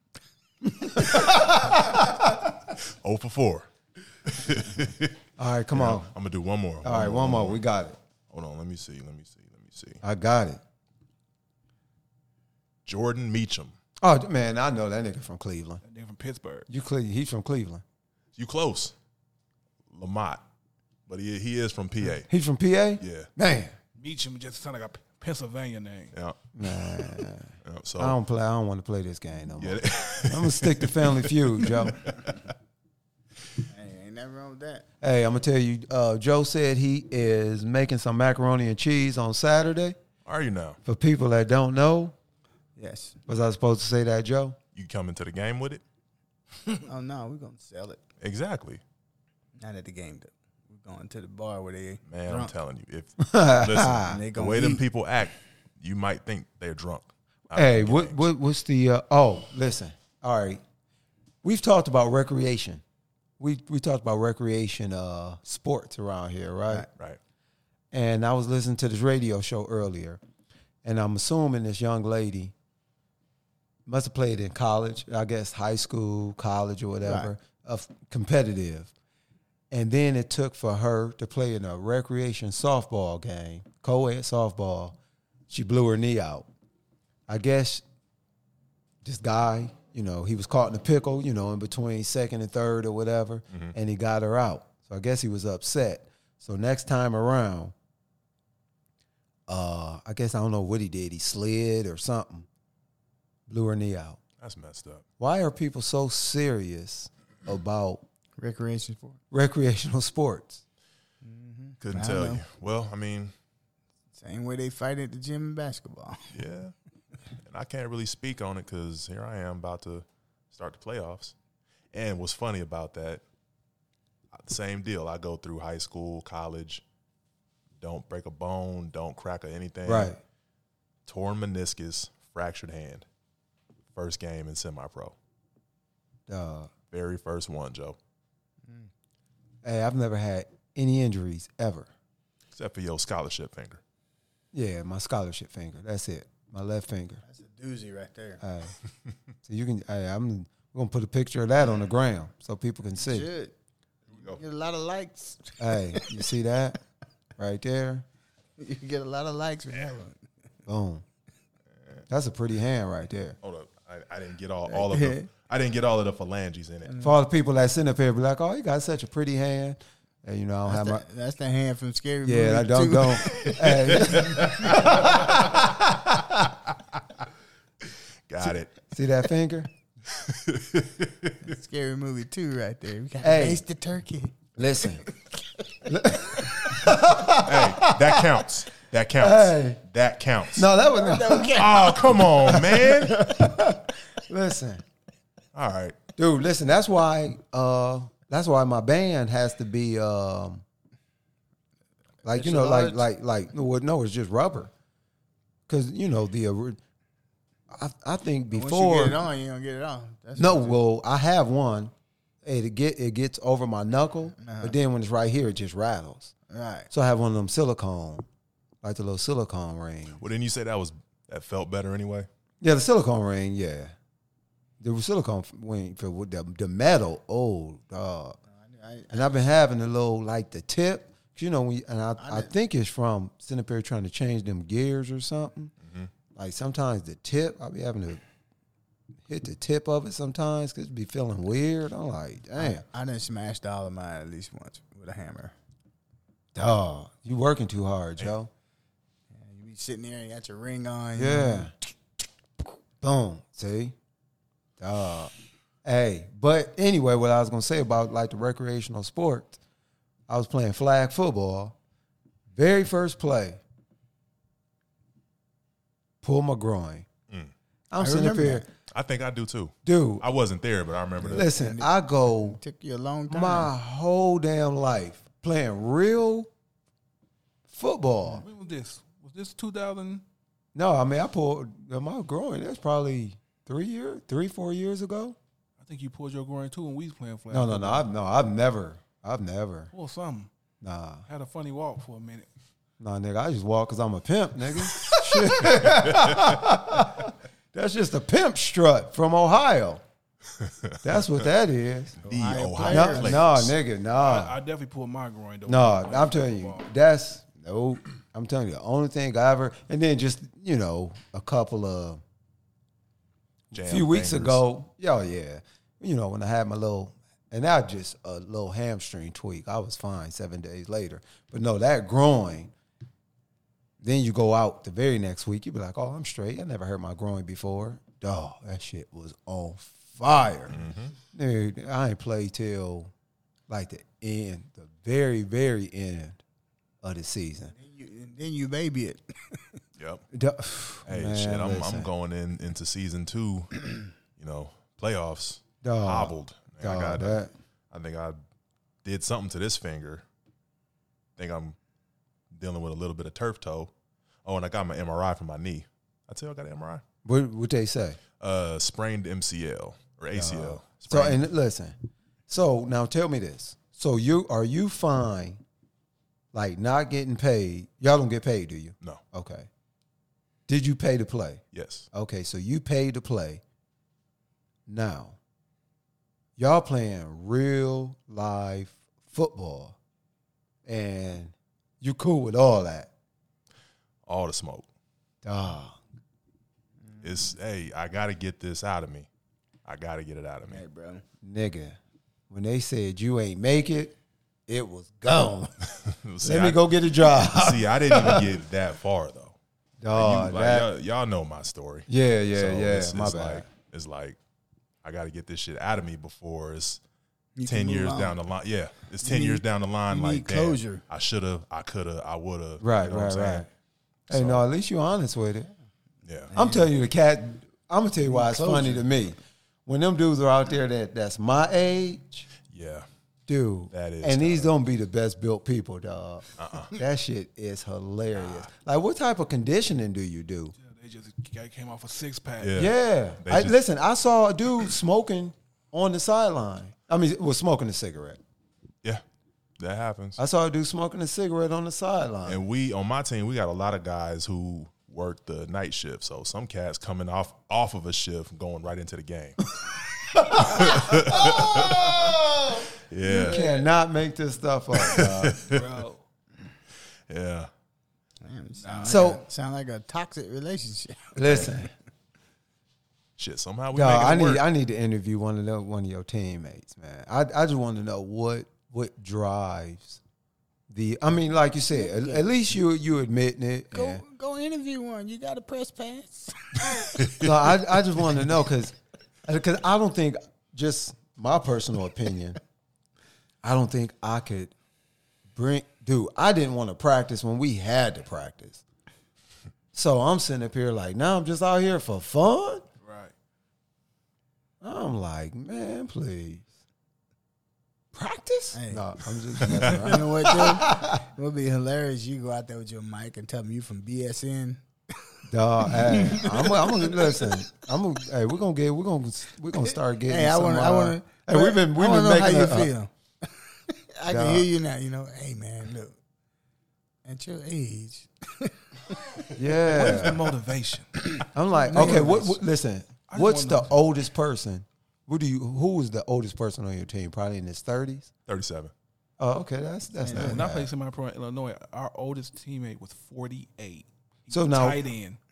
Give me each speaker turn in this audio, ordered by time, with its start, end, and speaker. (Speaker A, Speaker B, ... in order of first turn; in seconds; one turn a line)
Speaker A: 0.6-2.1
Speaker B: 2.8-3.7
Speaker B: 4.2-5.2
Speaker A: 5.4-6.1
Speaker B: 5.7-7.6
Speaker A: 6.8-8.0
Speaker B: 8.3-10.0
Speaker A: 10.0-10.6
Speaker B: 12.9-13.7
Speaker A: 14.0-15.8
Speaker C: 15.8-16.7
Speaker A: 16.7-17.8
Speaker B: 18.4-18.9
Speaker B: 19.9-20.4
Speaker B: 21.1-22.3
Speaker A: 22.3-23.7
Speaker B: 23.0-23.3
Speaker C: 24.0-26.1
Speaker B: 26.1-27.1
Speaker A: 26.6-32.1
Speaker B: 27.6-28.2
Speaker B: 29.6-32.4
Speaker D: 33.7-34.9
Speaker A: 35.0-40.0
Speaker B: 40.2-40.8
Speaker A: 40.9-42.1
Speaker D: 42.8-43.2
Speaker A: 43.3-44.6
Speaker B: 44.8-45.8
Speaker D: 46.7-48.0
Speaker B: 48.2-48.8
Speaker D: 49.6-52.5
Speaker B: 52.1-58.2
Speaker A: 53.2-54.2
Speaker D: 54.0-54.8
Speaker A: 57.5-60.6
Speaker A: 61.4-62.8
Speaker A: 63.4-66.9
Speaker A: 67.9-70.2
Speaker A: 70.8-72.5
Speaker A: 73.9-78.9
Speaker D: 77.0-77.3
Speaker A: 79.7-85.0
Speaker A: 85.5-86.5
Speaker A: 87.3-87.8
Speaker A: 89.0-97.7
Speaker A: 99.5-102.5
Speaker A: 103.5-104.2
Speaker B: 104.4-105.0
Speaker A: 105.2-108.0
Speaker D: 108.4-109.2
Speaker A: 109.3-110.6
Speaker D: 111.2-112.4
Speaker B: 111.8-113.3
Speaker D: 114.2-116.3
Speaker B: 116.3-116.7
Speaker B: 117.5-121.3
Speaker B: 121.9-123.2
Speaker B: 124.3-126.8
Speaker B: 127.8-130.2
Speaker A: 129.8-130.2
Speaker B: 131.1-133.1
Speaker B: 133.9-135.2
Speaker A: 136.3-136.7
Speaker B: 136.9-138.0
Speaker A: 139.6-141.9
Speaker B: 142.5-143.8
Speaker A: 144.5-147.2
Speaker D: 147.2-148.4
Speaker A: 148.4-148.7
Speaker A: 149.4-153.3
Speaker D: 153.0-153.6
Speaker B: 154.1-154.4
Speaker D: 154.2-156.2
Speaker A: 155.6-156.8
Speaker A: 157.4-158.1
Speaker D: 158.6-160.2
Speaker A: 160.7-161.0
Speaker A: 162.1-163.4
Speaker B: 163.4-166.9
Speaker D: 164.7-165.3
Speaker D: 166.9-167.2
Speaker A: 167.0-171.0
Speaker D: 170.7-174.9
Speaker A: 172.2-175.3
Speaker B: 173.4-176.6
Speaker B: 178.3-178.7
Speaker A: 178.4-179.7
Speaker B: 180.1-181.4
Speaker D: 181.4-184.4
Speaker A: 183.2-183.6
Speaker A: 184.6-185.0
Speaker A: 185.9-188.4
Speaker B: 187.3-190.7
Speaker A: 189.2-189.8
Speaker A: 190.5-194.8
Speaker D: 190.9-192.2
Speaker B: 191.6-193.2
Speaker D: 193.3-193.7
Speaker B: 195.6-196.0
Speaker A: 196.2-200.6
Speaker A: 202.2-204.7
Speaker D: 202.3-203.1
Speaker A: 205.7-206.8
Speaker A: 207.7-209.2
Speaker D: 208.5-210.8
Speaker A: 210.4-211.9
Speaker A: 212.4-216.3
Speaker D: 214.4-214.8
Speaker D: 216.5-216.9
Speaker A: 216.9-218.3
Speaker A: 218.8-220.2
Speaker B: 220.2-222.3
Speaker A: 222.6-223.9
Speaker A: 224.8-228.4
Speaker D: 228.5-229.4
Speaker A: 229.1-235.7
Speaker D: 232.2-232.5
Speaker B: 235.8-236.1
Speaker A: 236.3-238.2
Speaker A: 239.3-242.8
Speaker D: 242.6-245.5
Speaker A: 246.6-248.5
Speaker D: 249.3-251.7
Speaker A: 251.2-251.7
Speaker A: 253.0-253.9
Speaker A: 254.8-255.3
Speaker A: 255.8-259.6
Speaker A: 260.3-261.8
Speaker A: 262.6-263.6
Speaker A: 266.2-267.1
Speaker A: 267.9-268.6
Speaker D: 268.0-268.7
Speaker B: 268.9-271.5
Speaker A: 269.9-270.2
Speaker D: 271.2-273.7
Speaker A: 271.3-272.6
Speaker A: 273.3-276.5
Speaker A: 277.7-278.4
Speaker C: 278.4-280.2
Speaker A: 280.8-285.4
Speaker C: 285.8-288.1
Speaker A: 287.5-289.9
Speaker C: 289.9-290.5
Speaker A: 290.8-291.3
Speaker C: 291.3-292.5
Speaker A: 293.0-300.0
Speaker B: 295.7-296.7
Speaker B: 300.6-301.0
Speaker A: 301.0-302.2
Speaker D: 302.2-303.4
Speaker B: 302.3-303.8
Speaker A: 302.8-304.6
Speaker C: 304.2-306.9
Speaker A: 305.7-312.2
Speaker B: 313.7-314.6
Speaker A: 313.7-322.7
Speaker A: 324.0-330.8
Speaker D: 330.2-330.7
Speaker B: 330.7-331.1
Speaker A: 331.3-333.1
Speaker A: 333.7-336.4
Speaker A: 337.0-337.7
Speaker D: 337.7-339.8
Speaker B: 340.0-340.2
Speaker A: 340.3-342.1
Speaker B: 341.1-348.4
Speaker A: 345.8-347.5
Speaker B: 349.0-350.2
Speaker B: 351.4-351.8
Speaker B: 352.5-353.9
Speaker B: 354.4-357.0
Speaker A: 357.2-358.2
Speaker B: 358.4-361.4
Speaker A: 360.3-361.9
Speaker A: 362.5-365.6
Speaker A: 366.5-369.7
Speaker A: 370.7-371.6
Speaker B: 371.7-372.1
Speaker A: 372.1-373.6
Speaker A: 374.9-375.4
Speaker A: 376.6-380.0
Speaker A: 380.9-383.1
Speaker B: 384.3-384.9
Speaker A: 385.4-386.0
Speaker D: 387.1-387.4
Speaker B: 387.2-389.3
Speaker B: 389.9-390.8
Speaker D: 390.7-391.2
Speaker A: 391.4-392.0
Speaker A: 392.5-394.2
Speaker A: 394.7-395.7
Speaker B: 396.1-399.6
Speaker A: 396.4-398.5
Speaker A: 400.0-400.9
Speaker B: 400.1-404.4
Speaker A: 402.1-403.7
Speaker B: 405.0-407.0
Speaker D: 407.6-408.4
Speaker B: 407.6-413.7
Speaker D: 409.2-411.0
Speaker A: 412.8-413.7
Speaker B: 414.3-414.6
Speaker A: 414.3-415.7
Speaker B: 416.2-416.5
Speaker D: 416.5-416.9
Speaker A: 416.6-422.5
Speaker D: 418.3-419.1
Speaker B: 422.7-423.1
Speaker A: 423.5-430.8
Speaker B: 423.9-424.7
Speaker B: 426.6-426.9
Speaker C: 430.8-432.9
Speaker B: 432.6-433.8
Speaker A: 432.8-438.4
Speaker B: 439.8-440.4
Speaker A: 440.4-442.6
Speaker B: 442.5-449.7
Speaker B: 450.3-452.4
Speaker A: 450.3-455.7
Speaker B: 453.1-453.6
Speaker C: 453.4-453.7
Speaker B: 455.0-455.9
Speaker C: 455.7-456.2
Speaker B: 457.3-457.7
Speaker D: 458.4-461.8
Speaker C: 458.8-459.2
Speaker A: 459.1-459.4
Speaker A: 461.4-461.9
Speaker B: 463.4-464.6
Speaker A: 463.9-470.2
Speaker A: 470.9-474.2
Speaker D: 471.9-472.5
Speaker D: 473.9-477.3
Speaker B: 477.2-477.5
Speaker A: 477.4-482.6
Speaker A: 483.6-484.7
Speaker A: 485.5-488.8
Speaker A: 489.9-492.9
Speaker C: 493.0-493.3
Speaker A: 494.8-496.7
Speaker A: 498.1-501.2
Speaker D: 498.7-499.0
Speaker B: 499.6-500.0
Speaker D: 499.9-504.8
Speaker A: 505.5-512.9
Speaker D: 505.9-507.6
Speaker D: 510.2-516.2
Speaker A: 514.3-514.7
Speaker D: 517.2-519.5
Speaker A: 519.6-520.5
Speaker C: 519.9-521.2
Speaker A: 521.5-528.3
Speaker D: 521.8-522.5
Speaker C: 521.9-522.6
Speaker C: 523.3-524.0
Speaker B: 528.5-528.9
Speaker A: 529.4-530.9
Speaker D: 530.2-530.6
Speaker C: 530.3-535.4
Speaker A: 534.5-535.0